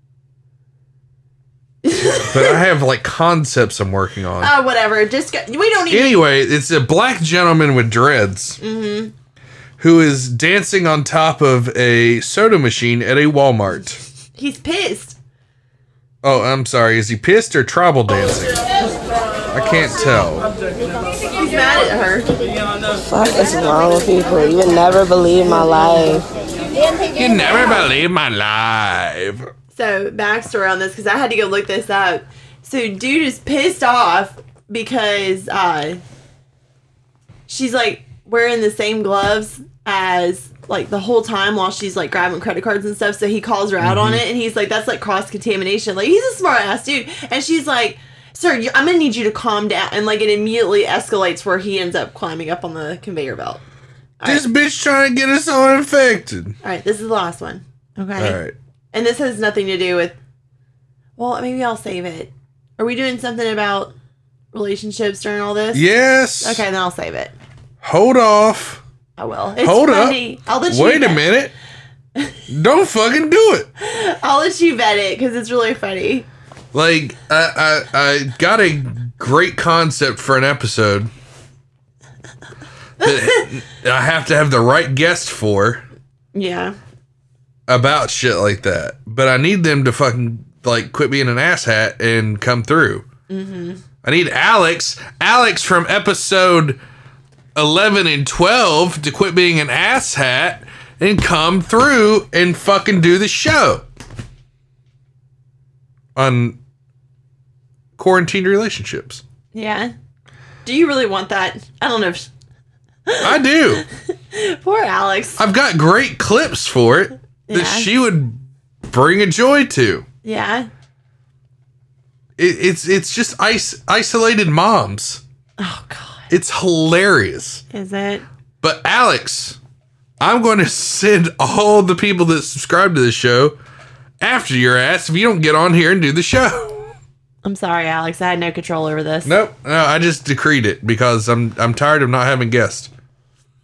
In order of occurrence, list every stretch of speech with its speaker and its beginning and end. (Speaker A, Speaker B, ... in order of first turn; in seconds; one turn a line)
Speaker A: 1.8-2.6
Speaker B: 2.1-4.5
Speaker A: 4.4-6.2
Speaker B: 5.9-8.6
Speaker A: 8.6-9.1
Speaker B: 9.8-14.0
Speaker A: 14.3-15.2
Speaker B: 16.2-18.6
Speaker B: 19.5-20.5
Speaker A: 21.4-22.3
Speaker C: 23.0-26.3
Speaker B: 27.1-29.5
Speaker A: 29.7-36.0
Speaker A: 37.5-53.6
Speaker B: 43.8-44.2
Speaker A: 54.2-54.5
Speaker B: 54.2-56.5
Speaker A: 56.6-58.4
Speaker B: 58.2-58.5
Speaker A: 58.9-60.1
Speaker A: 61.2-63.9
Speaker A: 64.5-65.8
Speaker B: 65.7-66.6
Speaker A: 66.4-67.3
Speaker B: 67.8-68.8
Speaker A: 69.2-71.2
Speaker B: 69.6-71.5
Speaker B: 72.5-73.7
Speaker A: 73.8-76.3
Speaker B: 76.7-81.1
Speaker B: 83.0-85.8
Speaker A: 86.3-86.8
Speaker B: 87.7-93.0
Speaker A: 93.3-93.8
Speaker B: 94.0-96.8
Speaker B: 97.5-103.8
Speaker B: 106.2-106.5
Speaker B: 108.0-109.2
Speaker A: 109.5-109.9
Speaker A: 110.6-112.3
Speaker A: 113.1-113.3
Speaker B: 113.2-113.8
Speaker A: 114.3-115.4
Speaker B: 115.4-120.0
Speaker A: 117.5-117.9
Speaker A: 120.2-120.7
Speaker B: 122.4-125.2
Speaker A: 125.6-126.3
Speaker B: 126.3-127.6
Speaker A: 127.7-128.2
Speaker B: 128.6-129.6
Speaker B: 130.2-133.6
Speaker B: 134.2-136.7
Speaker A: 137.4-139.3
Speaker B: 139.2-142.9